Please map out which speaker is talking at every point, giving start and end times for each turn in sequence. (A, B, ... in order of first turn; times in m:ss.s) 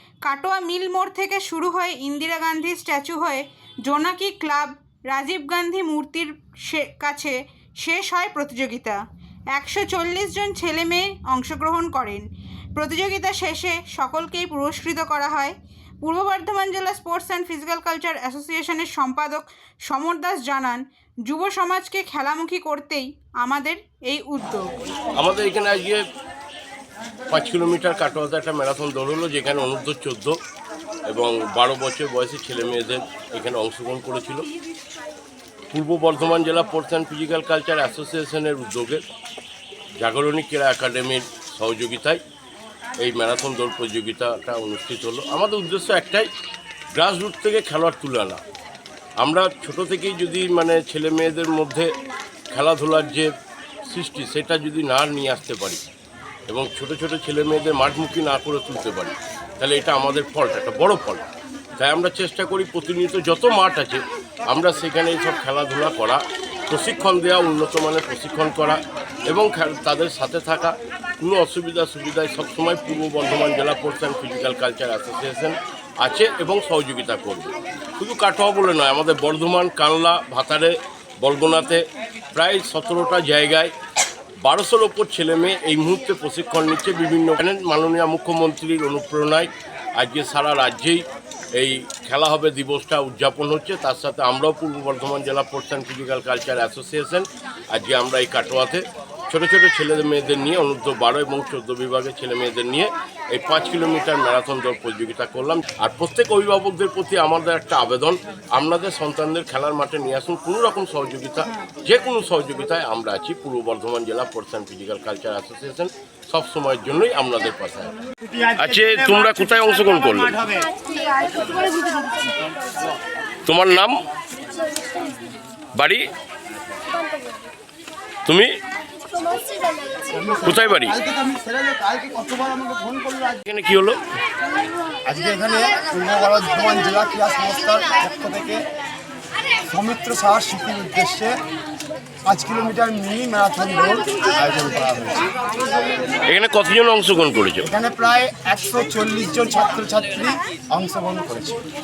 0:00.2-0:09.0 A
0:09.5-0:12.3 A
0:12.8-0:24.9 A
0:25.2-0:26.0 B
0:27.3-0:30.4 B
0:31.1-0:34.5 B
0:35.7-0:39.0 B
0:40.0-0:42.2 B
0:43.0-0:46.3 B
0:47.0-0:48.4 B
0:49.2-0:51.9 B
0:52.5-0:53.3 B
0:53.9-0:55.8 B
0:56.5-1:01.3 B
1:01.8-1:23.7 B
1:24.4-1:31.0 B
1:31.6-1:57.9 B
1:58.3-2:00.7 C
1:58.6-2:00.4 B
2:03.5-2:04.0 B
2:05.8-2:06.1 B
2:08.3-2:08.5 B
2:10.1-2:13.4 C
2:10.4-2:11.0 B
2:13.5-2:14.0 B
2:15.0-2:18.7 C
2:19.7-2:21.4 C
2:22.2-2:25.3 C
2:26.3-2:27.7 B
2:27.6-2:31.6 C